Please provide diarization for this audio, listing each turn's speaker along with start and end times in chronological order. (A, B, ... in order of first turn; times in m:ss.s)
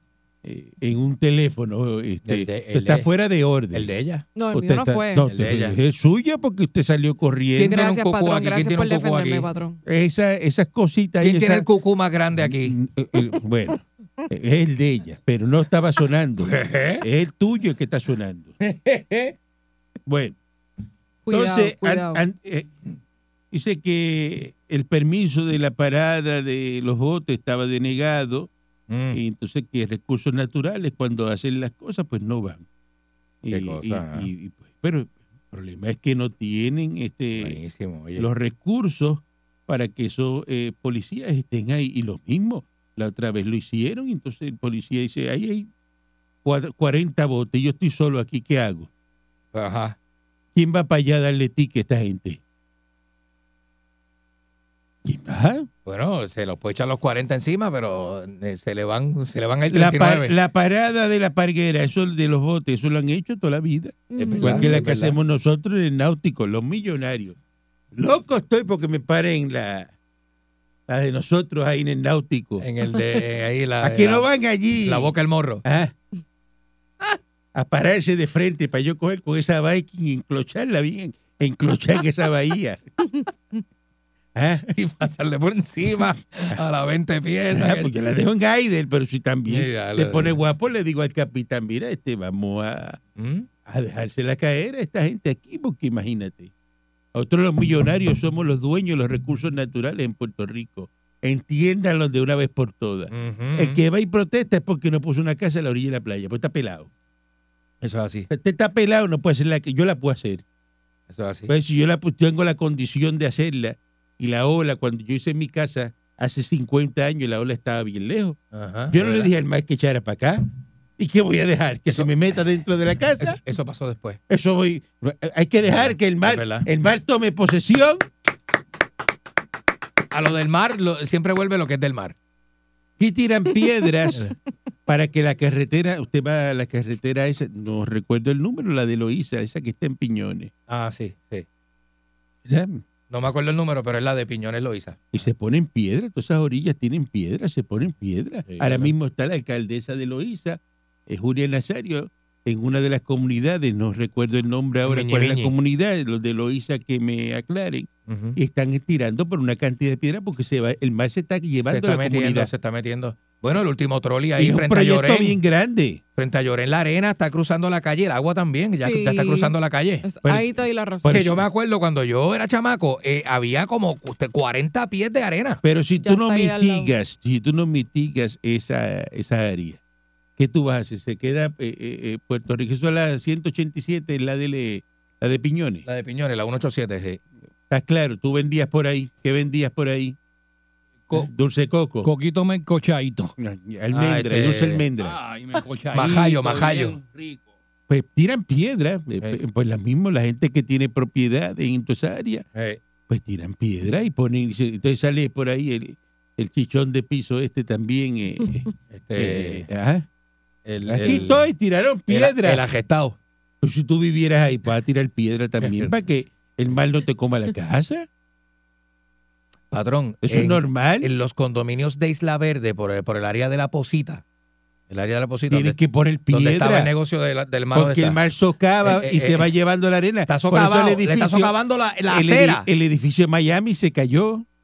0:00.4-0:03.9 A
0:02.2-0:03.1 B
0:03.7-0:04.2 B
0:04.4-0:05.3 C
0:04.5-0:07.8 A
0:05.2-0:05.8 B
0:07.6-0:09.5 B
0:07.6-0:09.8 C
0:09.8-0:11.7 A
0:11.2-0:12.8 B
0:12.4-0:18.6 A
0:16.4-0:17.0 B
0:18.6-0:19.3 B
0:20.0-0:20.4 A
0:21.2-0:22.2 C
0:21.3-0:22.7 A
0:23.5-0:28.5 A
0:28.9-0:29.2 B
0:29.1-0:32.6 A
0:33.4-0:37.6 A
0:33.5-0:34.3 B
0:37.3-0:38.3 B
0:38.2-0:45.7 A
0:46.4-0:48.9 A
0:49.5-0:50.0 B
0:50.5-0:52.4 A
0:55.0-0:55.7 A
0:55.8-1:00.3 B
0:59.7-1:07.4 A
1:04.1-1:04.8 C
1:04.2-1:05.2 B
1:07.9-1:09.9 A
1:10.9-1:12.6 A
1:12.6-1:14.3 B
1:13.8-1:15.9 A
1:14.8-1:15.6 B
1:17.5-1:22.8 A
1:24.3-1:24.7 A
1:24.7-1:27.9 B
1:27.5-1:33.0 A
1:29.5-1:30.4 B
1:33.2-1:33.5 B
1:33.6-1:36.5 A
1:37.1-1:46.9 A
1:43.1-1:43.8 B
1:47.8-1:48.3 B
1:48.3-1:50.4 A
1:51.1-1:51.5 B
1:51.5-1:58.4 A
1:58.5-1:59.3 B
1:58.9-2:00.4 A
2:01.0-2:03.4 A
2:03.2-2:04.2 B
2:04.3-2:08.0 A
2:05.6-2:06.6 B
2:10.1-2:12.1 B
2:13.0-2:14.3 A
2:14.9-2:20.5 A
2:20.7-2:21.4 B
2:22.4-2:22.8 A
2:23.1-2:25.2 B
2:25.1-2:42.5 A
2:28.4-2:28.9 B
2:34.8-2:35.5 B
2:38.1-2:38.4 B
2:41.6-2:45.4 B
2:44.4-2:46.0 A
2:46.2-2:50.1 B
2:48.8-2:51.3 C
2:51.0-2:51.4 A
2:51.1-2:55.6 B
2:55.6-2:59.8 A
2:56.0-2:56.9 C
3:00.4-3:05.8 A
3:05.8-3:07.2 B
3:07.7-3:10.2 A
3:11.1-3:12.1 A
3:12.0-3:13.3 D
3:13.4-3:15.2 A
3:13.9-3:14.9 B
3:15.0-3:17.5 D
3:15.9-3:17.0 B
3:17.9-3:22.4 A
3:22.5-3:22.8 B
3:23.1-3:30.0 A
3:28.9-3:29.7 B
3:30.6-3:31.4 B
3:30.9-3:32.6 A
3:32.1-3:33.2 B
3:33.6-3:38.1 A
3:35.6-3:35.9 B
3:39.7-3:44.2 B
3:40.2-3:41.1 A
3:44.9-3:45.8 B
3:45.5-3:46.9 A
3:46.3-3:48.2 B
3:47.7-3:51.5 A
3:48.8-3:49.5 B
3:50.3-3:52.7 B
3:52.1-3:54.4 A